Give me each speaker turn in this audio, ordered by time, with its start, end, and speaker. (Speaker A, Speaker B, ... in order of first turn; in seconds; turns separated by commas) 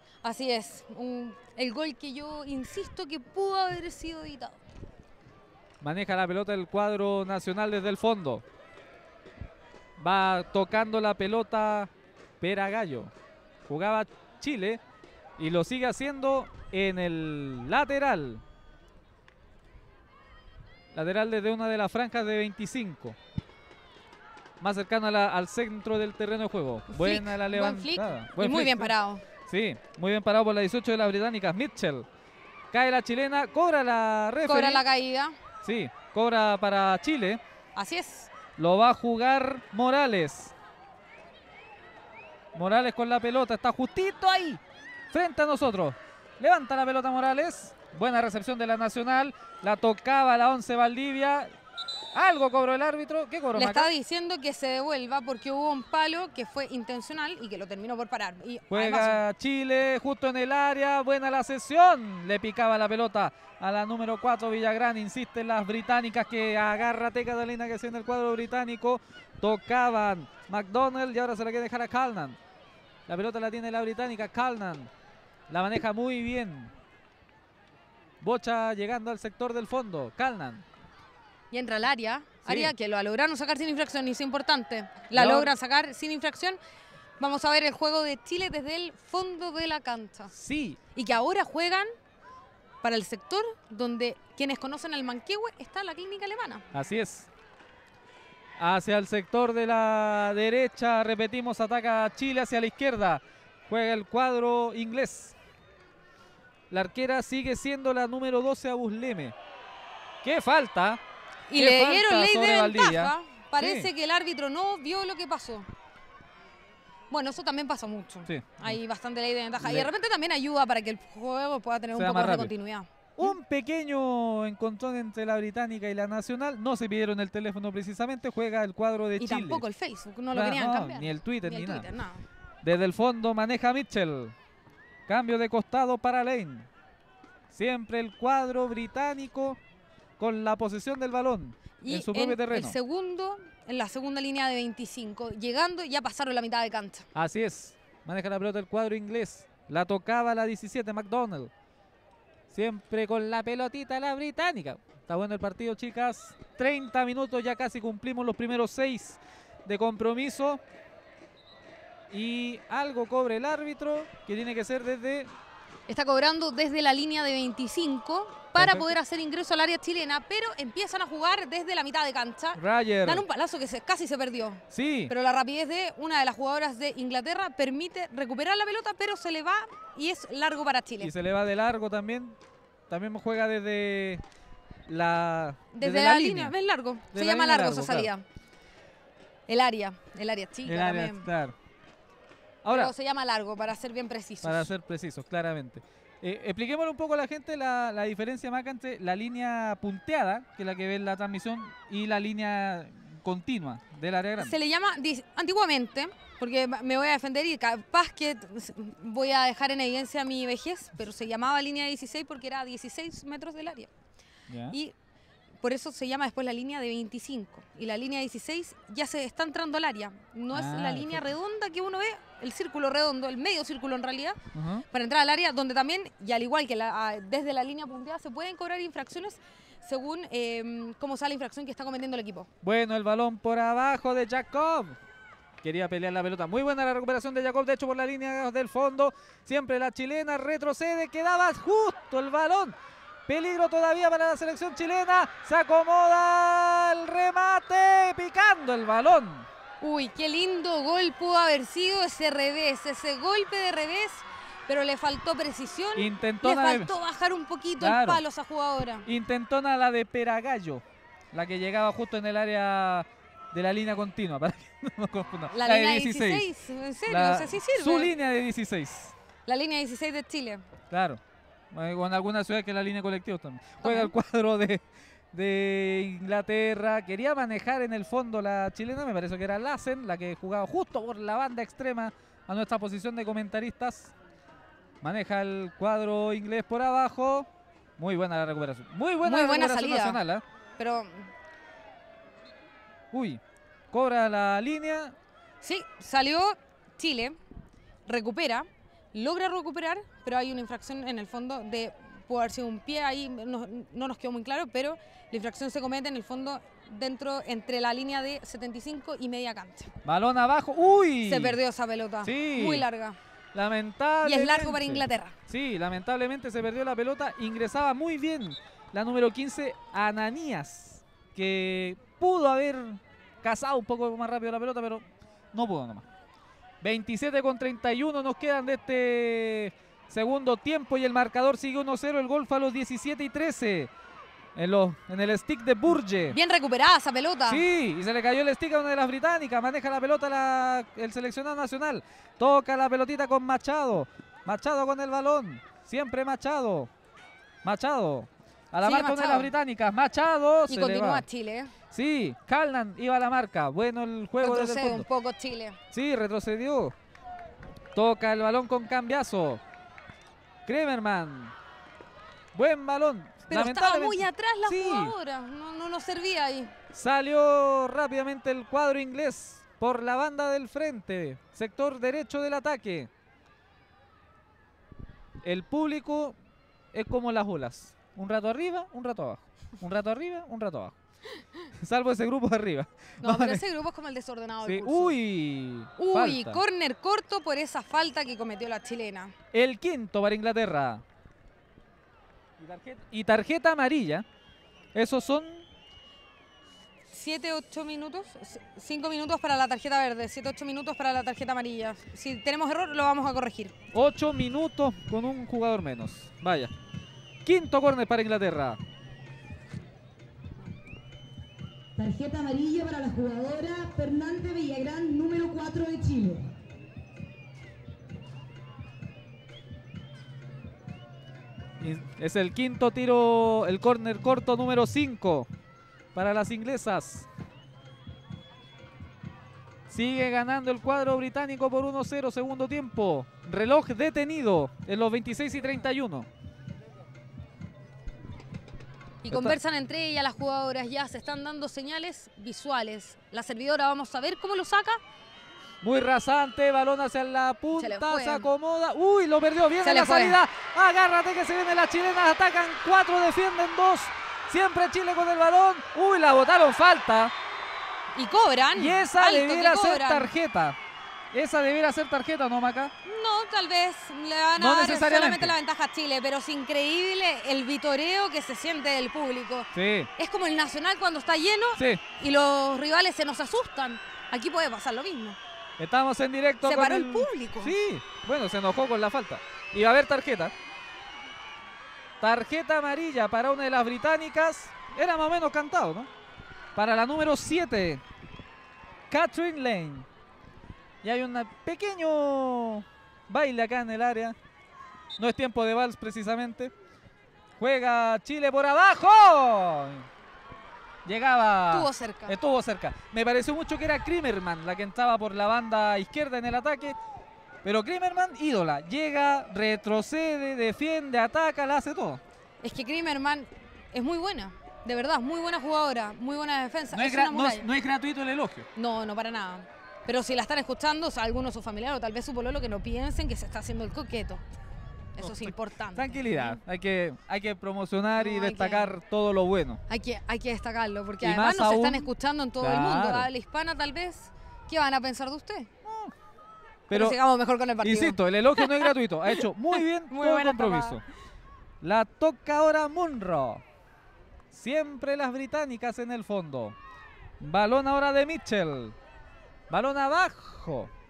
Speaker A: 0.2-4.6, Speaker B: 5.8-8.4, Speaker B: 10.0-13.1, Speaker B: 13.7-14.8, Speaker B: 15.4-18.4, Speaker B: 20.9-23.2, Speaker B: 24.6-28.9, Speaker A: 26.9-29.2, Speaker B: 29.4-32.1, Speaker B: 32.7-34.8, Speaker A: 34.5-35.4, Speaker B: 35.6-37.4, Speaker A: 37.8-38.3, Speaker B: 38.6-40.5, Speaker B: 42.5-51.5, Speaker B: 52.1-53.9, Speaker A: 53.6-59.2, Speaker B: 58.7-72.4, Speaker B: 73.1-74.9, Speaker B: 75.5-76.7, Speaker B: 78.2-80.7, Speaker A: 81.5-86.6, Speaker B: 82.5-82.7, Speaker B: 85.1-85.5, Speaker A: 87.2-90.3, Speaker B: 90.3-90.8, Speaker A: 90.9-91.9, Speaker A: 92.8-96.7, Speaker B: 96.7-97.3, Speaker B: 98.6-105.3, Speaker B: 106.7-109.4, Speaker B: 110.2-111.0, Speaker A: 111.5-115.7, Speaker B: 111.5-113.9, Speaker A: 117.1-123.3, Speaker B: 118.3-118.8, Speaker B: 119.6-119.9, Speaker B: 121.9-122.5, Speaker B: 123.2-129.6, Speaker A: 129.2-132.2, Speaker B: 130.3-131.9, Speaker B: 132.6-134.3, Speaker B: 135.1-136.7, Speaker B: 137.5-139.6, Speaker B: 140.2-142.8, Speaker A: 141.8-147.1, Speaker B: 147.2-151.5, Speaker B: 152.5-160.6, Speaker B: 162.1-165.3, Speaker A: 165.9-181.1, Speaker B: 168.6-168.9, Speaker B: 172.6-173.2, Speaker B: 174.7-175.1, Speaker B: 181.0-182.4, Speaker B: 182.9-184.2, Speaker B: 184.9-186.6, Speaker A: 185.7-188.2, Speaker B: 187.1-188.1, Speaker A: 189.5-191.3, Speaker B: 190.7-191.6, Speaker B: 192.6-192.9, Speaker A: 192.7-194.7, Speaker B: 194.4-204.6, Speaker A: 204.4-213.9, Speaker B: 214.5-214.8, Speaker A: 215.6-224.4, Speaker B: 220.5-221.3, Speaker B: 224.5-224.8, Speaker A: 224.9-232.5, Speaker B: 232.6-235.0, Speaker B: 235.6-242.8, Speaker B: 243.3-249.5, Speaker A: 249.8-259.1, Speaker B: 255.9-256.9, Speaker B: 257.8-258.2, Speaker B: 259.1-266.5, Speaker A: 265.5-268.1, Speaker B: 267.1-269.1, Speaker A: 269.5-270.6, Speaker B: 270.9-271.2, Speaker B: 271.7-284.1, Speaker A: 273.8-274.1, Speaker B: 285.0-290.4, Speaker A: 289.2-290.2, Speaker A: 290.8-291.3, Speaker B: 293.1-295.1, Speaker A: 295.6-297.4, Speaker A: 298.1-309.9, Speaker B: 310.1-311.6, Speaker A: 311.2-313.2, Speaker B: 312.2-312.9, Speaker B: 313.5-326.1, Speaker A: 314.2-315.4, Speaker B: 326.8-333.9, Speaker B: 334.6-336.4, Speaker A: 336.3-337.6, Speaker B: 337.5-346.9, Speaker B: 347.6-351.2, Speaker A: 348.8-349.5, Speaker A: 350.7-351.7, Speaker B: 351.9-355.1, Speaker A: 354.4-355.8, Speaker B: 355.9-356.9, Speaker B: 357.9-359.6, Speaker B: 360.7-361.5, Speaker B: 362.5-365.1, Speaker A: 363.5-366.7, Speaker B: 366.9-373.1, Speaker B: 375.4-376.4, Speaker B: 376.9-381.0, Speaker B: 381.8-383.6, Speaker A: 383.2-385.2, Speaker B: 384.6-386.6, Speaker A: 386.0-389.3, Speaker B: 389.5-391.0, Speaker B: 392.6-394.2, Speaker B: 394.9-395.6, Speaker A: 397.1-403.8, Speaker B: 403.9-406.7, Speaker B: 407.4-408.8, Speaker C: 412.0-416.5, Speaker B: 421.8-425.5, Speaker B: 426.1-427.3, Speaker B: 429.9-436.3, Speaker A: 439.2-445.0, Speaker B: 439.3-439.6, Speaker B: 445.8-457.3, Speaker A: 447.8-448.5, Speaker A: 449.8-450.4, Speaker A: 458.1-460.3, Speaker B: 458.8-460.8, Speaker B: 461.3-462.9, Speaker A: 463.0-475.4, Speaker B: 464.6-465.6, Speaker B: 469.7-470.1, Speaker B: 471.8-472.0, Speaker B: 475.8-480.5, Speaker A: 476.6-477.7, Speaker B: 482.2-486.1, Speaker B: 486.8-488.0, Speaker B: 489.1-490.1, Speaker B: 491.0-494.4, Speaker B: 495.2-496.7, Speaker B: 497.6-500.1, Speaker B: 501.1-507.0, Speaker A: 501.7-502.4, Speaker B: 507.6-512.2, Speaker A: 512.6-517.7, Speaker B: 516.9-518.7, Speaker A: 518.8-524.4, Speaker A: 525.1-526.6, Speaker B: 525.2-529.8, Speaker A: 528.2-528.9, Speaker A: 529.9-535.7, Speaker B: 531.2-533.3, Speaker B: 535.8-536.1, Speaker B: 536.9-537.2, Speaker A: 536.9-539.5, Speaker B: 537.8-541.0, Speaker A: 540.1-541.0, Speaker B: 541.8-543.6, Speaker B: 544.5-546.8, Speaker B: 547.4-549.0, Speaker B: 549.7-550.9